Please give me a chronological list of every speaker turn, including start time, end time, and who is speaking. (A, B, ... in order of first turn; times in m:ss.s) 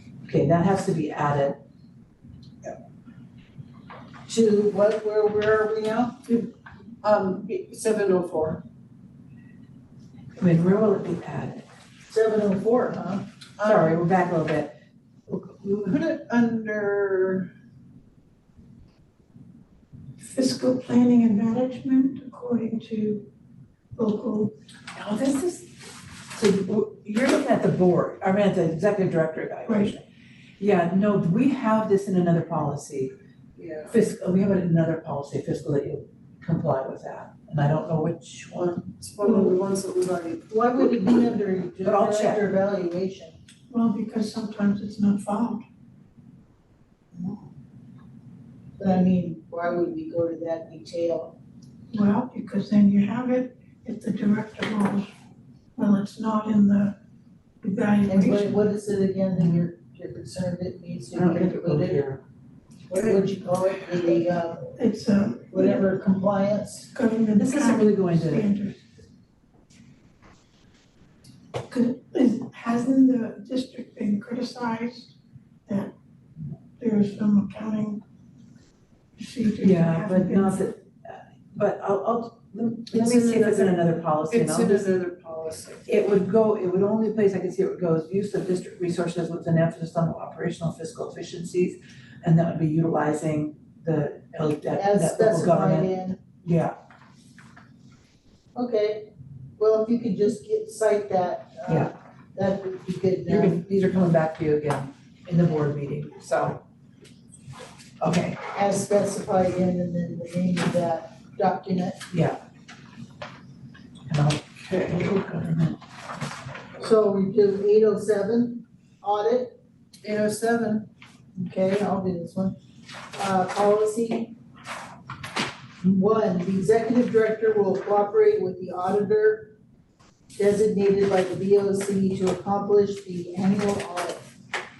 0:00.2-0:01.6 A
0:04.3-0:06.2 B
0:06.3-0:08.6 C
0:10.4-0:11.6 A
0:12.1-0:13.3 B
0:13.6-0:14.0 C
0:13.6-0:14.8 A
0:15.3-0:15.5 A
0:15.6-0:17.5 C
0:20.2-0:23.3 D
0:24.0-0:24.6 D
0:24.9-0:25.7 A
0:26.3-0:30.0 A
0:29.7-0:29.9 D
0:30.6-0:33.1 A
0:33.6-0:33.9 C
0:33.9-0:39.0 A
0:39.0-0:41.1 C
0:40.5-0:43.4 B
0:41.8-0:42.5 A
0:43.7-0:45.6 D
0:47.2-0:47.4 B
0:48.8-0:51.4 B
0:51.9-0:55.1 D
0:55.8-0:57.0 D
0:57.6-0:58.6 D
0:58.1-1:02.0 B
0:59.4-0:59.6 A
1:01.1-1:02.2 A
1:02.9-1:04.7 B
1:04.8-1:05.8 D
1:05.5-1:06.9 B
1:06.9-1:08.8 D
1:07.4-1:08.5 A
1:11.7-1:15.1 D
1:15.7-1:15.9 D
1:16.8-1:18.0 D
1:19.2-1:20.7 D
1:19.6-1:25.0 A
1:22.9-1:25.9 C
1:25.9-1:35.9 A
1:34.8-1:36.2 B
1:36.4-1:36.8 A
1:38.6-1:43.6 B
1:41.7-1:41.9 A
1:43.3-1:46.6 A
1:48.0-1:48.4 A
1:48.5-1:52.0 B
1:52.1-1:52.4 A
1:54.1-1:55.8 A
1:56.8-1:59.6 B
2:00.0-2:00.9 C
2:01.4-2:02.6 B
2:03.2-2:04.4 B
2:05.9-2:09.5 B
2:10.4-2:14.2 B